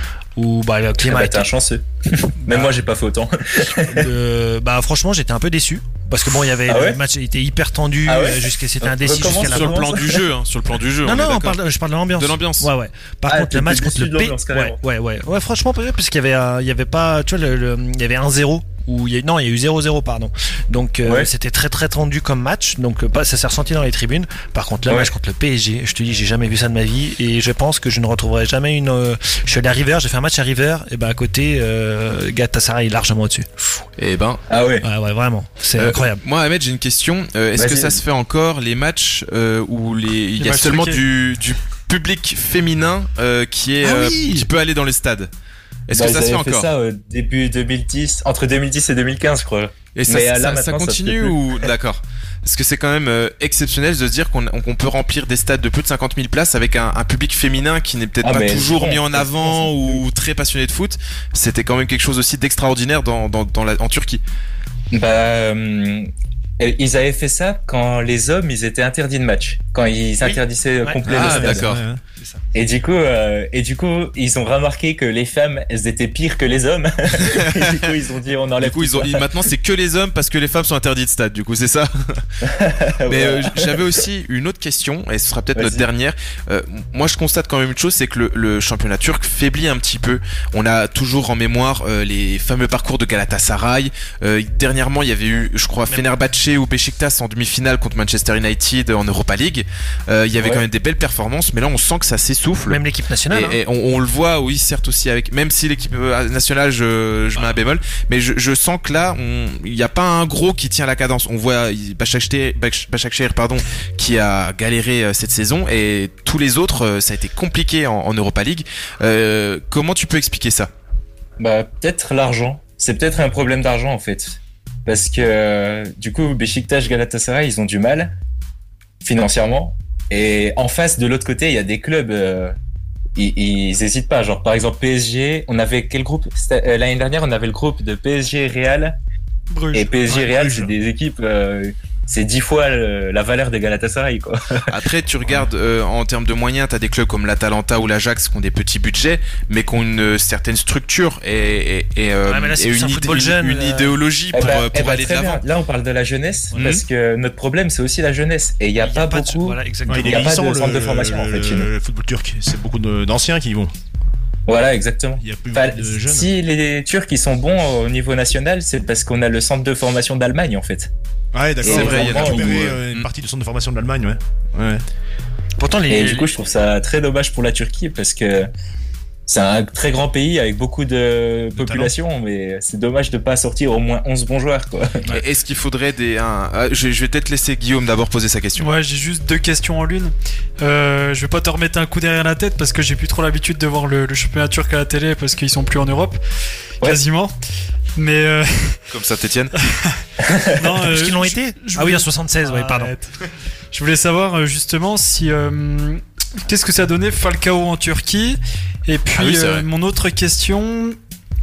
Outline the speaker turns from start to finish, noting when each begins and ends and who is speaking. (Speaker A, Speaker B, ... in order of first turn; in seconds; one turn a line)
Speaker A: 0.3-1.5
Speaker B: 1.0-4.1
Speaker A: 2.4-2.7
Speaker A: 3.8-10.2
Speaker B: 6.7-7.0
Speaker B: 8.1-10.1
Speaker C: 9.1-11.6
Speaker A: 11.0-33.5
Speaker C: 12.1-12.7
Speaker B: 13.3-14.8
Speaker B: 21.0-21.3
Speaker B: 24.9-25.1
Speaker C: 34.0-34.4
Speaker B: 34.5-34.9
Speaker A: 34.8-36.2
Speaker C: 35.8-45.3
Speaker B: 37.5-38.0
Speaker D: 40.4-41.0
Speaker A: 43.8-44.5
Speaker C: 45.9-46.7
Speaker B: 45.9-51.6
Speaker C: 49.9-64.2
Speaker B: 58.2-60.0
Speaker B: 64.9-66.1
Speaker B: 66.6-71.7
Speaker A: 70.2-71.1
Speaker E: 71.0-72.0
Speaker C: 71.1-71.8
Speaker A: 72.2-72.4
Speaker B: 72.5-79.2
Speaker C: 77.3-77.8
Speaker C: 78.6-82.2
Speaker B: 82.4-83.9
Speaker C: 83.1-120.7
Speaker B: 85.5-85.8
Speaker B: 100.4-100.6
Speaker A: 102.7-103.6
Speaker B: 121.4-128.1
Speaker B: 129.0-132.5
Speaker B: 133.2-138.9
Speaker D: 139.5-140.2
Speaker B: 139.7-144.6
Speaker E: 140.1-140.7
Speaker C: 144.7-155.4
Speaker A: 152.2-154.0
Speaker B: 154.3-161.7
Speaker C: 156.6-156.8
Speaker A: 158.8-160.4
Speaker E: 159.9-163.7
Speaker B: 164.5-170.9
Speaker E: 165.2-166.3
Speaker E: 171.3-174.8
Speaker B: 171.6-172.8
Speaker C: 171.6-173.1
Speaker A: 175.6-176.3
Speaker B: 175.9-178.5
Speaker B: 179.3-185.0
Speaker C: 185.1-188.7
Speaker D: 188.6-196.2
Speaker D: 196.8-197.3
Speaker D: 197.9-198.8
Speaker C: 198.9-199.5
Speaker D: 199.6-199.9
Speaker B: 200.2-200.7
Speaker D: 200.6-203.1
Speaker A: 200.8-202.9
Speaker D: 203.7-211.0
Speaker C: 209.1-209.7